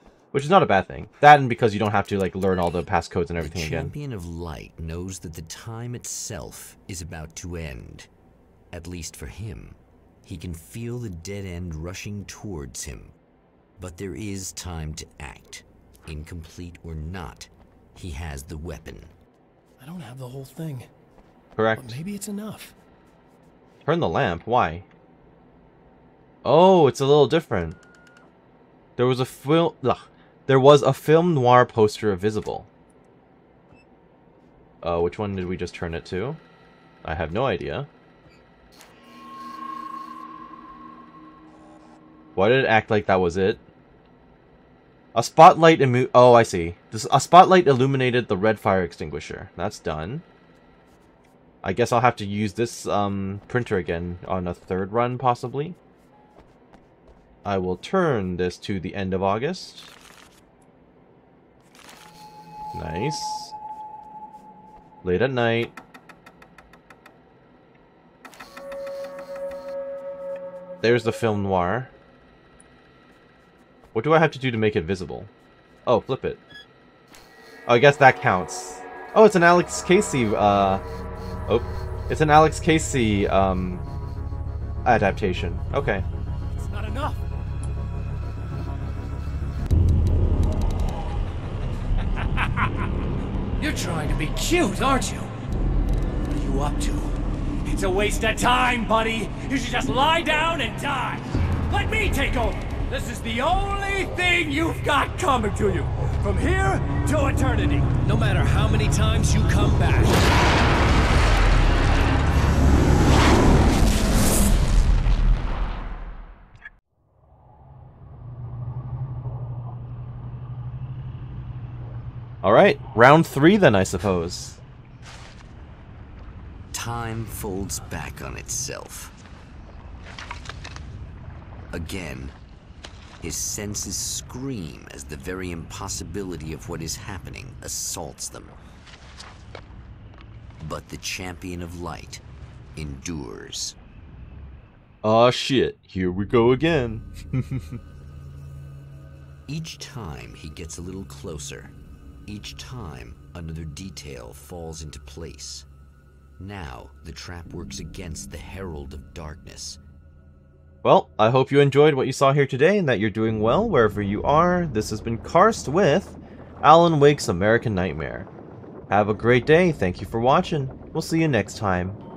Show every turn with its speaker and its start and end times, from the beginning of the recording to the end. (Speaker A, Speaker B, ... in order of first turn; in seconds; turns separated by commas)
Speaker A: 0.3-4.0, Speaker B: 3.4-8.1, Speaker B: 8.7-13.2, Speaker B: 13.8-19.1, Speaker C: 19.8-20.9, Speaker A: 21.6-22.0, Speaker C: 21.8-22.8, Speaker A: 23.9-24.9, Speaker A: 26.4-27.8, Speaker A: 29.0-32.7, Speaker A: 34.8-36.4, Speaker A: 37.0-37.9, Speaker A: 42.4-43.6, Speaker A: 45.1-50.2, Speaker A: 51.6-55.8, Speaker A: 57.5-59.9, Speaker A: 62.7-63.5, Speaker A: 65.0-65.7, Speaker A: 70.8-71.9, Speaker A: 74.0-75.3, Speaker A: 75.9-76.4, Speaker A: 77.7-80.8, Speaker A: 81.5-83.8, Speaker A: 84.8-86.0, Speaker D: 86.5-87.2, Speaker D: 93.6-95.3, Speaker D: 96.3-97.0, Speaker C: 96.4-97.1, Speaker D: 97.7-110.2, Speaker C: 108.4-109.2, Speaker A: 122.4-124.6, Speaker B: 126.7-129.2, Speaker B: 131.7-132.4, Speaker B: 133.2-138.6, Speaker B: 140.6-142.2, Speaker B: 142.8-143.8, Speaker A: 145.0-147.8, Speaker B: 149.5-151.8, Speaker B: 152.3-155.7, Speaker B: 156.4-159.8, Speaker A: 160.8-168.3, Speaker A: 168.9-172.0